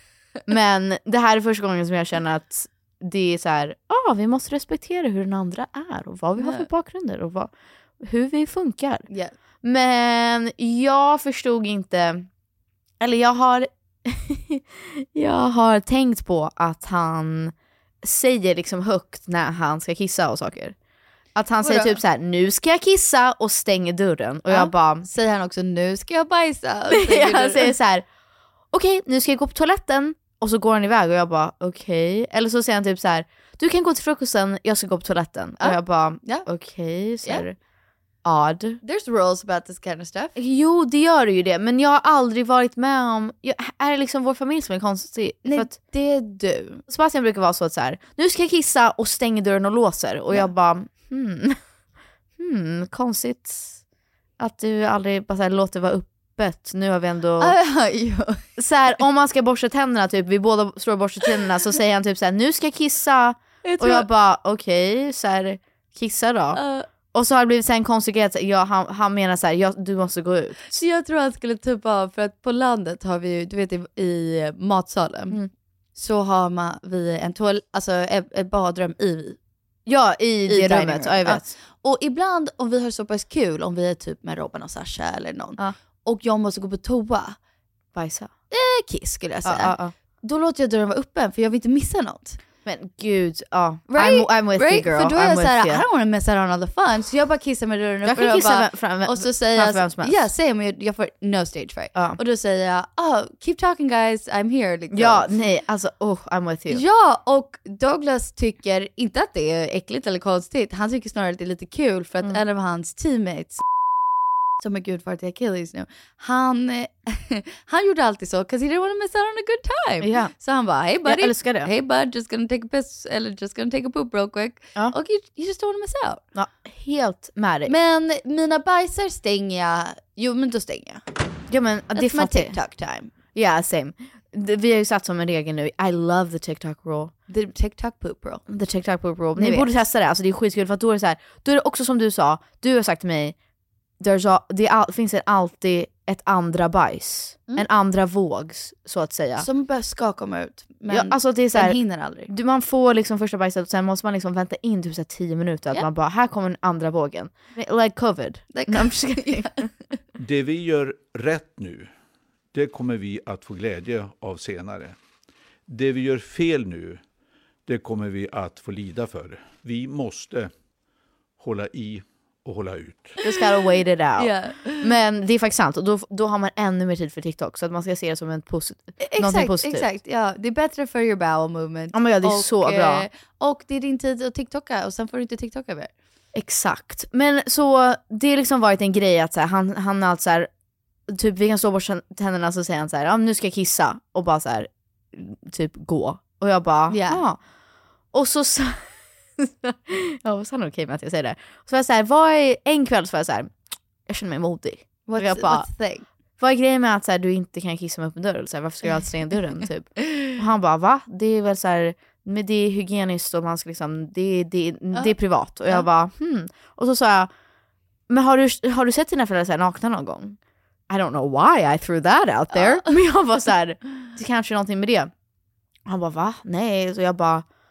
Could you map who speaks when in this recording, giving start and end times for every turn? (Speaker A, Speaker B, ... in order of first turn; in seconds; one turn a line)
Speaker A: 0.5-9.1
Speaker B: 6.4-6.7
Speaker B: 9.1-9.3
Speaker A: 9.6-12.3
Speaker A: 13.0-20.7
Speaker A: 21.3-25.1
Speaker B: 21.6-22.0
Speaker B: 24.5-27.7
Speaker A: 26.9-28.1
Speaker A: 28.7-37.5
Speaker B: 35.6-36.5
Speaker A: 38.2-38.8
Speaker B: 38.8-40.4
Speaker A: 40.4-45.7
Speaker B: 45.4-46.8
Speaker A: 46.9-51.6
Speaker A: 52.4-53.8
Speaker A: 54.4-57.5
Speaker B: 57.4-58.5
Speaker A: 58.6-66.6
Speaker B: 63.6-64.1
Speaker B: 66.5-66.9
Speaker A: 67.1-70.8
Speaker B: 70.7-75.4
Speaker B: 75.9-79.4
Speaker A: 79.8-81.5
Speaker B: 80.5-87.4
Speaker A: 87.9-88.3
Speaker B: 88.5-92.4
Speaker A: 89.4-89.9
Speaker A: 92.6-95.8
Speaker B: 93.9-105.3
Speaker A: 98.0-100.2
Speaker A: 104.9-106.8
Speaker B: 106.7-113.6
Speaker B: 114.6-126.2
Speaker A: 120.0-120.3
Speaker A: 121.0-121.7
Speaker A: 126.3-127.7
Speaker B: 127.7-131.0
Speaker A: 131.5-132.6
Speaker B: 131.9-133.1
Speaker A: 133.3-137.1
Speaker B: 137.3-138.4
Speaker A: 138.5-143.3
Speaker B: 139.3-139.7
Speaker A: 144.0-149.5
Speaker B: 149.4-152.3
Speaker A: 150.9-159.7
Speaker B: 158.5-159.7
Speaker C: 160.2-161.9
Speaker C: 162.5-164.9
Speaker C: 165.7-167.0
Speaker C: 167.7-170.5
Speaker C: 171.4-173.2
Speaker A: 173.2-179.9
Speaker B: 174.2-174.9
Speaker B: 179.0-185.9
Speaker A: 181.9-183.1
Speaker A: 186.3-190.5
Speaker A: 191.1-197.4
Speaker B: 196.9-197.2
Speaker A: 198.1-203.5
Speaker A: 204.1-205.7
Speaker B: 205.1-206.1
Speaker A: 206.4-217.3
Speaker A: 218.1-220.4
Speaker A: 220.9-225.1
Speaker B: 222.5-222.9
Speaker A: 225.8-227.4